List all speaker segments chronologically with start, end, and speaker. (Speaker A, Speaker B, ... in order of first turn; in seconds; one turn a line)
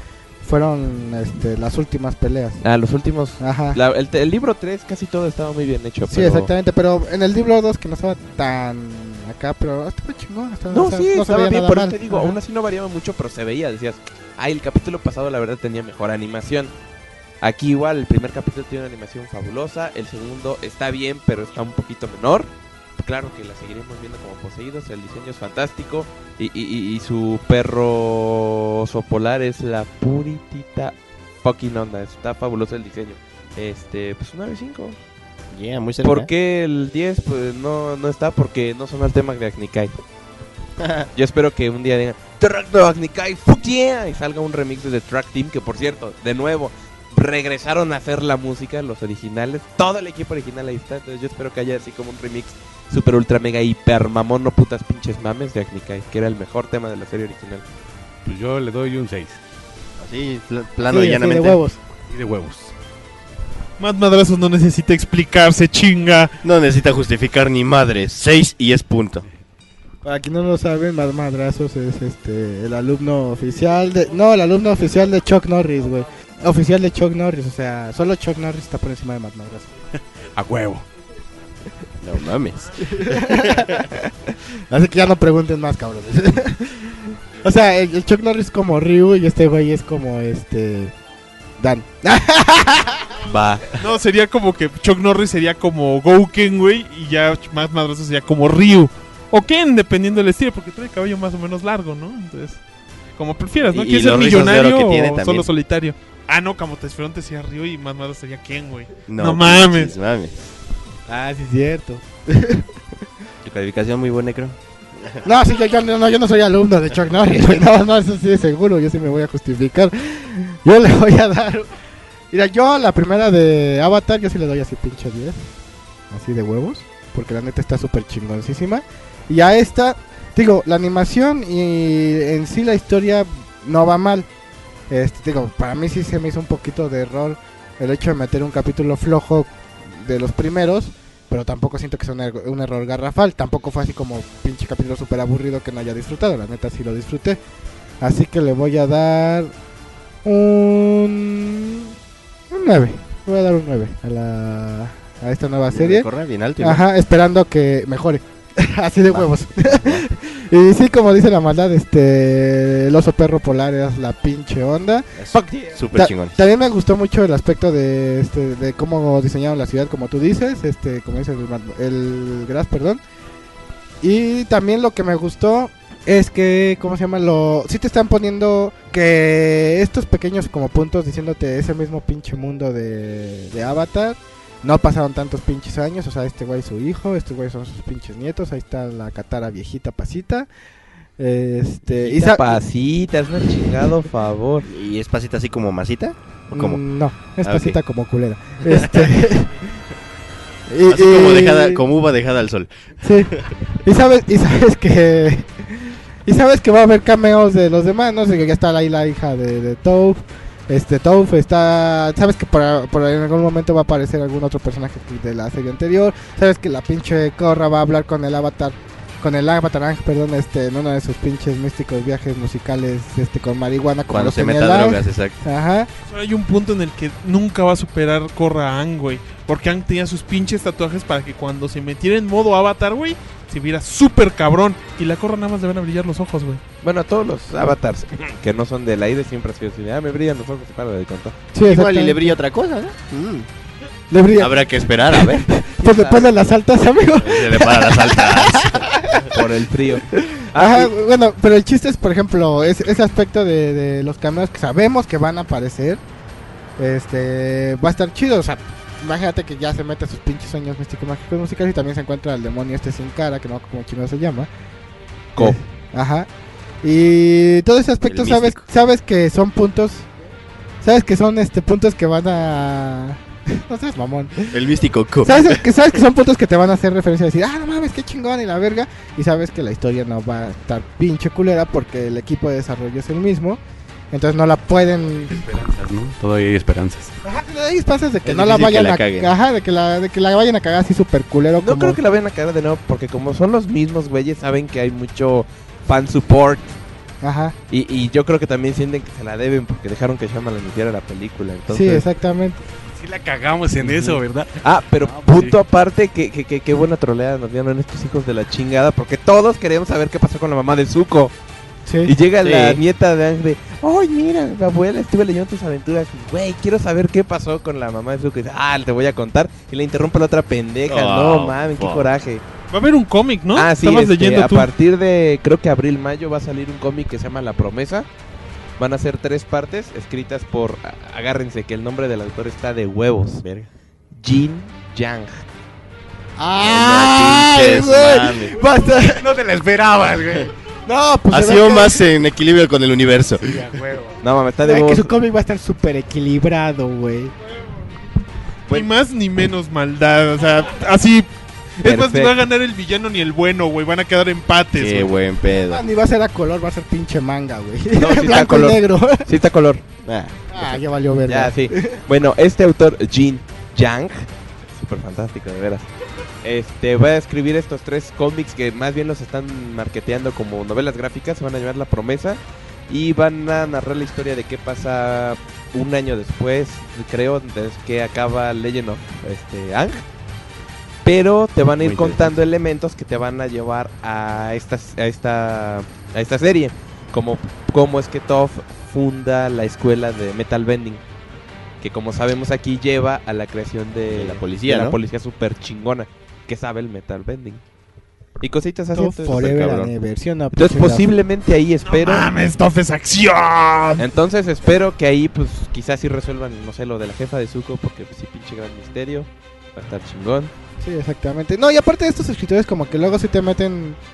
Speaker A: 0.4-2.6
Speaker B: 2.6-6.5
Speaker A: 3.4-3.8
Speaker A: 6.0-12.4
Speaker B: 10.7-16.7
Speaker B: 17.4-35.0
Speaker C: 35.5-36.3
Speaker B: 36.0-39.9
Speaker C: 40.8-41.1
Speaker B: 41.1-57.6
Speaker D: 58.2-59.4
Speaker C: 60.0-61.6
Speaker A: 60.9-61.8
Speaker D: 62.1-62.7
Speaker E: 63.8-66.3
Speaker C: 66.4-69.3
Speaker A: 70.0-79.7
Speaker D: 80.3-80.8
Speaker C: 82.0-83.8
Speaker A: 82.8-84.0
Speaker A: 84.7-90.9
Speaker A: 91.6-93.1
Speaker C: 93.3-93.8
Speaker E: 93.8-102.6
Speaker E: 103.2-109.9
Speaker C: 103.7-105.5
Speaker C: 109.0-110.5
Speaker A: 111.1-112.7
Speaker C: 113.4-115.2
Speaker A: 115.2-121.7
Speaker A: 122.3-125.5
Speaker A: 126.1-134.3
Speaker A: 134.9-147.4
Speaker A: 148.0-149.5
Speaker A: 150.2-151.9
Speaker A: 152.5-156.1
Speaker C: 155.7-156.8
Speaker A: 156.6-165.1
Speaker C: 159.1-160.1
Speaker C: 165.1-166.4
Speaker B: 165.3-165.8
Speaker A: 165.9-173.0
Speaker A: 174.0-190.5
Speaker A: 191.2-192.6
Speaker B: 191.9-194.7
Speaker C: 194.7-196.8
Speaker A: 196.5-199.6
Speaker C: 197.4-197.8
Speaker C: 198.7-199.0
Speaker A: 200.7-201.8
Speaker C: 200.9-202.7
Speaker A: 203.0-225.9
Speaker C: 224.1-225.4
Speaker E: 226.0-236.6
Speaker B: 236.8-241.3
Speaker A: 241.5-242.3
Speaker C: 241.6-243.5
Speaker A: 244.1-249.4
Speaker C: 244.4-245.4
Speaker B: 245.8-246.3
Speaker C: 247.2-249.1
Speaker B: 249.3-250.9
Speaker A: 250.2-256.0
Speaker A: 256.8-264.5
Speaker A: 265.4-266.3
Speaker A: 266.8-270.1
Speaker C: 268.0-268.6
Speaker A: 270.8-274.5
Speaker C: 274.5-275.6
Speaker A: 275.2-283.6
Speaker A: 284.1-285.4
Speaker D: 285.3-287.1
Speaker A: 287.2-292.0
Speaker C: 288.2-289.3
Speaker B: 291.6-296.7
Speaker A: 297.2-297.6
Speaker B: 297.7-302.0
Speaker A: 301.7-302.6
Speaker D: 302.9-305.6
Speaker B: 303.8-311.3
Speaker A: 311.9-312.8
Speaker B: 312.1-322.4
Speaker C: 320.9-322.1
Speaker E: 322.7-324.7
Speaker B: 323.5-328.1
Speaker B: 328.8-333.4
Speaker B: 334.1-335.4
Speaker A: 336.4-339.3
Speaker C: 336.6-338.5
Speaker D: 339.1-340.5
Speaker A: 340.9-342.1
Speaker C: 341.3-343.6
Speaker D: 343.4-344.2
Speaker B: 344.2-345.1
Speaker A: 344.6-347.3
Speaker E: 348.7-355.2
Speaker B: 351.8-352.3
Speaker C: 354.7-355.8
Speaker A: 355.7-359.3
Speaker B: 357.9-359.8
Speaker C: 360.0-360.5
Speaker A: 360.5-362.0
Speaker B: 361.3-365.9
Speaker B: 366.4-380.0
Speaker B: 381.0-391.0
Speaker C: 381.8-382.2
Speaker B: 391.8-397.6
Speaker C: 394.1-395.0
Speaker B: 398.4-399.9
Speaker A: 398.9-401.1
Speaker C: 399.3-399.8
Speaker B: 400.5-402.3
Speaker E: 401.9-404.0
Speaker B: 404.0-410.5
Speaker A: 410.8-414.0